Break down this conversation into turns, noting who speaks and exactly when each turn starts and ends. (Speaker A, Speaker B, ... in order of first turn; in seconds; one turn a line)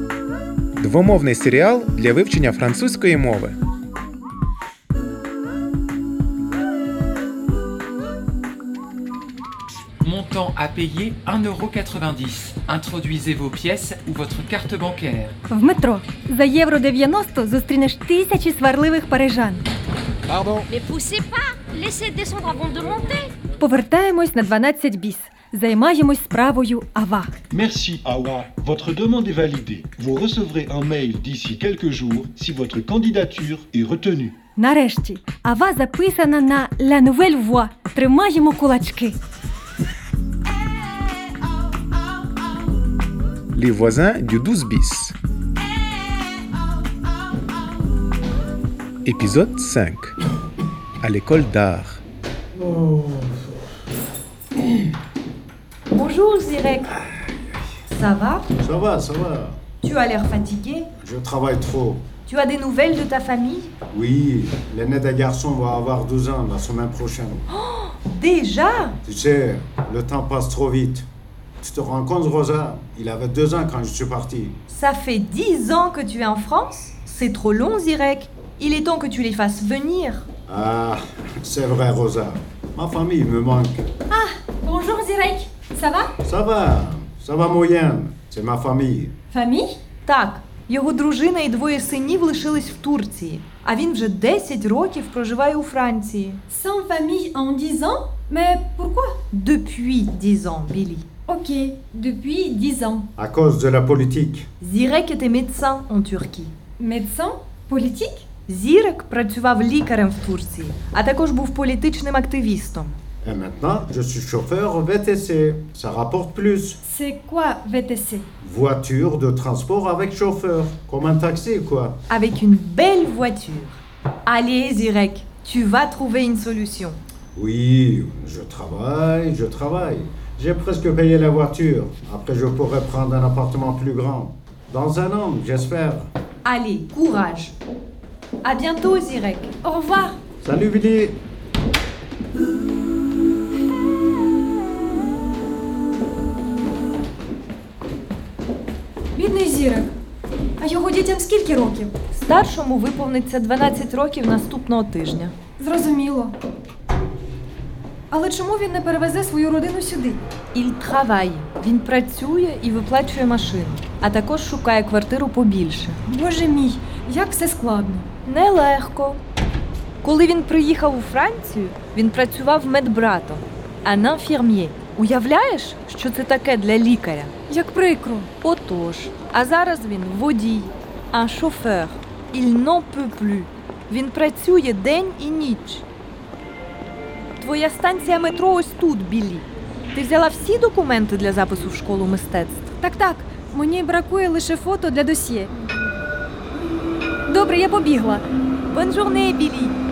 Speaker A: 0.8-3.6
Speaker B: 10.0-15.3
Speaker C: 15.5-19.6
Speaker D: 20.7-23.3
Speaker C: 23.6-27.3
Speaker E: 27.5-34.4
Speaker C: 34.6-39.2
Speaker A: 43.5-45.1
Speaker A: 49.0-50.1
Speaker A: 51.0-52.0
Speaker F: 55.9-57.0
Speaker F: 57.9-58.5
Speaker G: 58.6-59.6
Speaker F: 59.8-60.9
Speaker G: 61.0-62.1
Speaker F: 62.3-63.7
Speaker G: 63.9-67.5
Speaker F: 67.5-69.0
Speaker G: 69.0-71.1
Speaker G: 71.6-74.6
Speaker F: 74.7-80.3
Speaker G: 80.5-83.8
Speaker C: 84.1-86.1
Speaker G: 86.2-89.2
Speaker C: 89.3-89.8
Speaker F: 90.1-96.4
Speaker C: 96.5-99.2
Speaker F: 99.3-101.0
Speaker C: 101.3-103.1
Speaker G: 103.2-104.5
Speaker F: 104.6-106.5
Speaker C: 106.8-108.2
Speaker F: 108.5-113.0
Speaker G: 113.2-116.8
Speaker C: 116.8-118.3
Speaker G: 118.4-122.0
Speaker F: 122.1-127.0
Speaker G: 127.3-136.1
Speaker F: 136.4-137.5
Speaker F: 138.4-140.1
Speaker C: 139.7-140.1
Speaker G: 140.4-141.2
Speaker C: 149.1-149.9
Speaker C: 150.6-151.9
Speaker F: 152.1-155.4
Speaker C: 155.6-156.3
Speaker C: 158.1-160.2
Speaker F: 160.5-166.0
Speaker C: 166.1-168.1
Speaker F: 168.2-169.2
Speaker F: 170.0-177.3
Speaker C: 177.5-178.3
Speaker F: 178.4-185.8
Speaker F: 187.4-192.6
Speaker C: 192.8-195.5
Speaker C: 197.3-198.2
Speaker F: 198.7-199.8